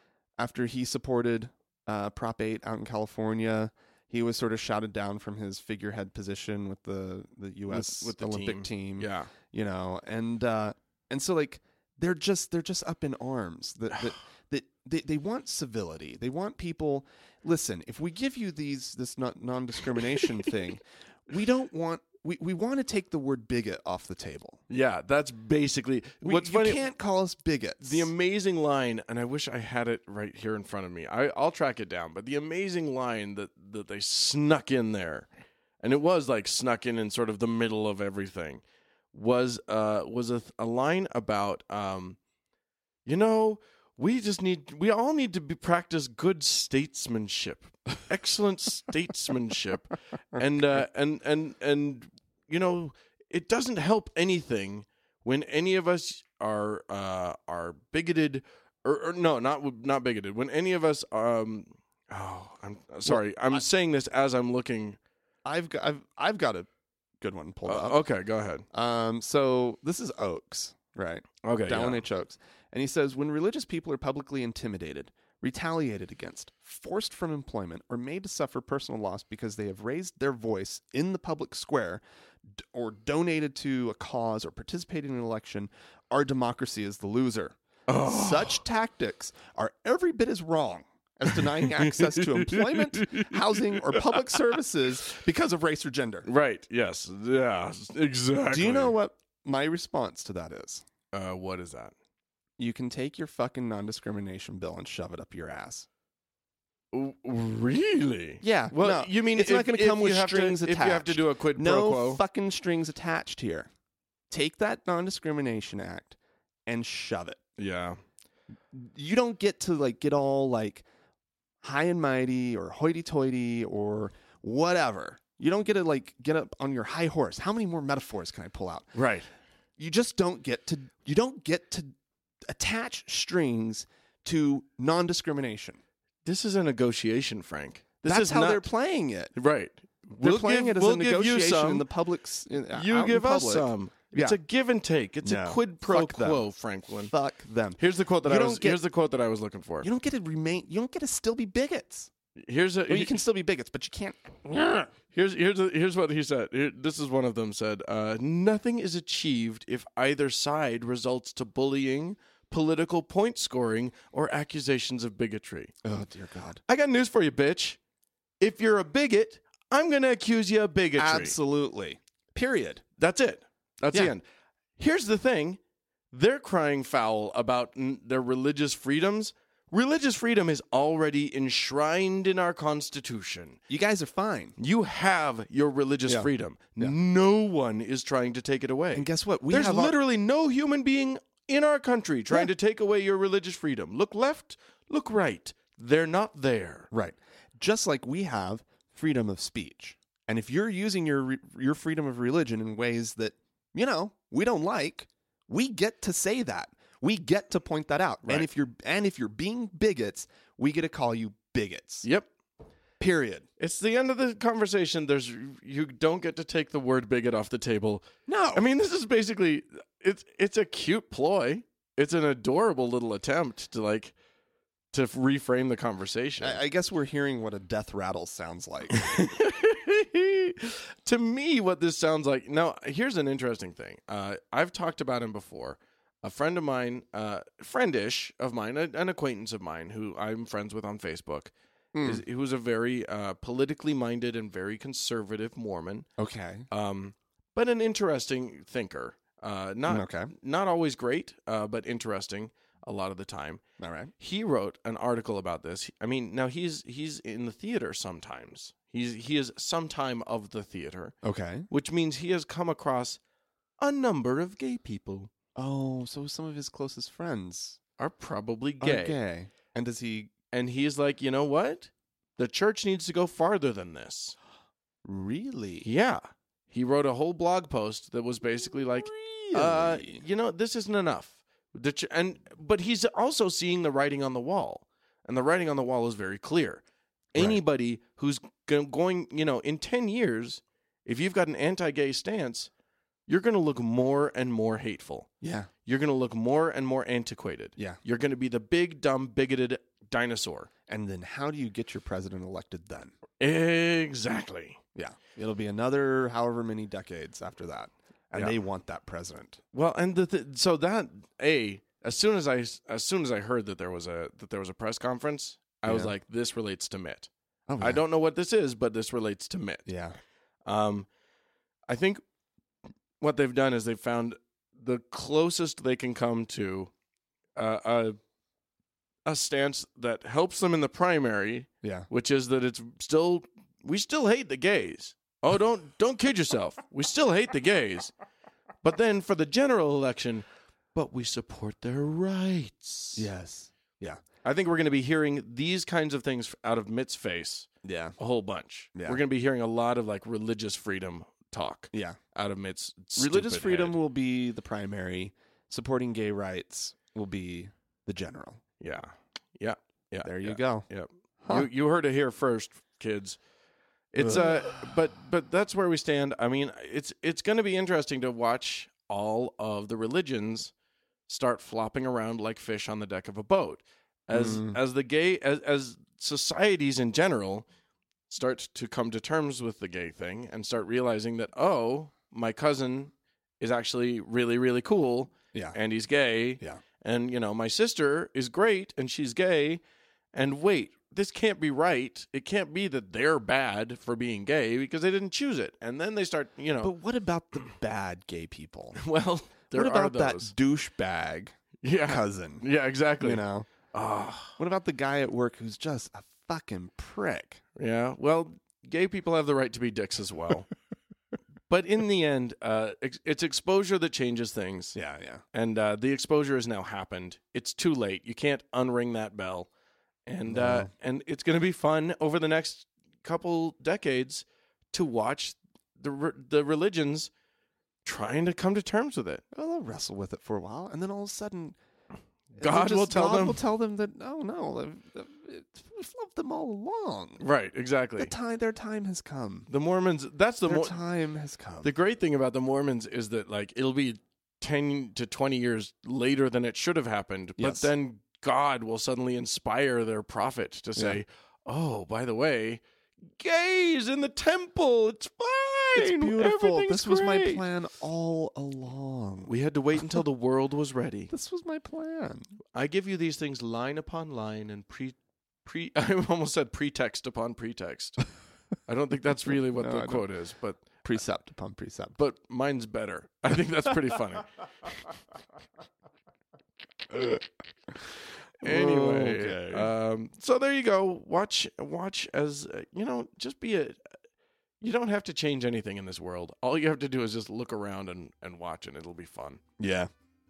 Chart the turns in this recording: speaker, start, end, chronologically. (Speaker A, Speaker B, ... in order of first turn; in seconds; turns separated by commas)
Speaker A: 0.4-24.6, Speaker B: 7.7-9.3, Speaker B: 24.7-26.9, Speaker A: 26.2-28.1, Speaker B: 27.8-35.3, Speaker B: 35.8-42.2, Speaker B: 43.1-65.0, Speaker A: 50.3-50.9, Speaker A: 63.1-63.6, Speaker A: 65.5-66.7, Speaker A: 67.2-68.0, Speaker B: 67.7-68.7, Speaker A: 68.7-96.3, Speaker B: 71.4-72.0, Speaker B: 87.9-88.6, Speaker B: 91.3-94.4, Speaker B: 96.2-98.9, Speaker A: 98.5-100.8, Speaker B: 101.1-101.9, Speaker A: 102.6-105.9, Speaker B: 106.9-112.2, Speaker A: 108.4-113.7, Speaker A: 114.3-117.4, Speaker B: 117.6-118.0, Speaker A: 118.7-120.8, Speaker A: 121.6-128.9, Speaker B: 128.9-129.3, Speaker A: 129.8-131.9, Speaker A: 132.5-135.8, Speaker B: 136.2-138.7, Speaker A: 138.0-139.3, Speaker B: 139.3-141.9, Speaker A: 140.2-144.4, Speaker B: 142.7-147.1, Speaker A: 145.2-146.4, Speaker A: 147.0-148.8, Speaker B: 147.8-149.9, Speaker A: 149.8-152.1, Speaker B: 152.4-153.2, Speaker A: 152.9-154.9, Speaker B: 155.1-165.7, Speaker A: 165.8-166.6, Speaker B: 166.7-167.8, Speaker B: 168.4-171.4, Speaker A: 171.0-172.8, Speaker B: 173.0-174.2, Speaker B: 174.8-175.6, Speaker B: 176.1-183.6, Speaker A: 183.7-184.6, Speaker B: 184.6-196.9, Speaker A: 186.1-186.9, Speaker A: 188.9-190.0, Speaker A: 196.9-212.1, Speaker B: 212.0-212.3, Speaker A: 213.0-213.5, Speaker B: 213.6-224.2, Speaker A: 218.3-218.7, Speaker B: 224.9-226.6, Speaker A: 226.4-229.2, Speaker B: 228.9-246.1, Speaker A: 241.9-242.2, Speaker A: 246.2-246.7, Speaker B: 246.7-253.6, Speaker A: 249.9-250.3, Speaker A: 253.8-254.1, Speaker B: 254.2-261.1, Speaker A: 261.2-261.7, Speaker B: 261.7-263.2, Speaker B: 263.8-265.3, Speaker A: 265.6-267.8, Speaker B: 268.0-269.2, Speaker A: 268.8-270.3, Speaker B: 270.5-274.4, Speaker A: 275.0-275.9, Speaker B: 275.8-286.8, Speaker A: 278.9-280.2, Speaker B: 287.3-292.7, Speaker A: 287.4-287.6, Speaker B: 293.3-295.3, Speaker A: 295.4-295.7, Speaker B: 295.9-300.7, Speaker A: 300.9-303.1, Speaker B: 303.4-304.8, Speaker A: 304.9-309.6, Speaker B: 309.7-319.9, Speaker A: 315.9-316.1, Speaker A: 317.7-318.0, Speaker A: 319.9-320.2, Speaker B: 320.6-321.1, Speaker B: 321.9-322.2, Speaker B: 323.2-326.9, Speaker B: 327.6-328.2, Speaker B: 329.3-338.1, Speaker A: 331.8-332.1, Speaker B: 338.8-343.3, Speaker A: 343.2-344.2, Speaker B: 344.4-354.0, Speaker A: 347.8-348.2, Speaker A: 348.9-349.2, Speaker A: 351.9-352.2, Speaker A: 353.2-358.6, Speaker B: 358.8-363.4, Speaker A: 360.2-360.9, Speaker A: 361.4-361.7, Speaker B: 364.1-370.7, Speaker A: 364.2-364.9, Speaker B: 371.3-377.7, Speaker A: 374.3-374.8, Speaker B: 378.3-389.8, Speaker B: 390.3-396.9, Speaker A: 396.8-399.0, Speaker B: 398.9-400.5, Speaker A: 399.7-402.7, Speaker B: 401.8-404.6, Speaker A: 403.2-403.7, Speaker A: 404.6-407.6, Speaker B: 407.8-410.7, Speaker B: 411.7-415.0, Speaker A: 414.9-415.4, Speaker B: 415.5-419.7, Speaker B: 420.3-427.3, Speaker A: 420.5-420.9, Speaker B: 428.1-429.4, Speaker A: 429.5-431.8, Speaker A: 432.5-437.4, Speaker B: 432.6-433.6, Speaker B: 437.4-438.3, Speaker A: 438.2-439.7, Speaker B: 439.7-441.0, Speaker A: 440.7-441.9, Speaker B: 441.8-452.8, Speaker A: 447.6-447.9, Speaker B: 453.4-457.6, Speaker A: 456.0-459.5, Speaker B: 459.5-461.3, Speaker A: 461.3-462.5, Speaker B: 462.7-468.2, Speaker B: 468.9-470.9, Speaker A: 469.7-470.3, Speaker A: 471.0-472.2, Speaker B: 472.2-474.5, Speaker A: 477.1-477.4, Speaker B: 478.6-484.0, Speaker A: 478.6-479.9, Speaker B: 484.8-489.6, Speaker A: 489.8-490.1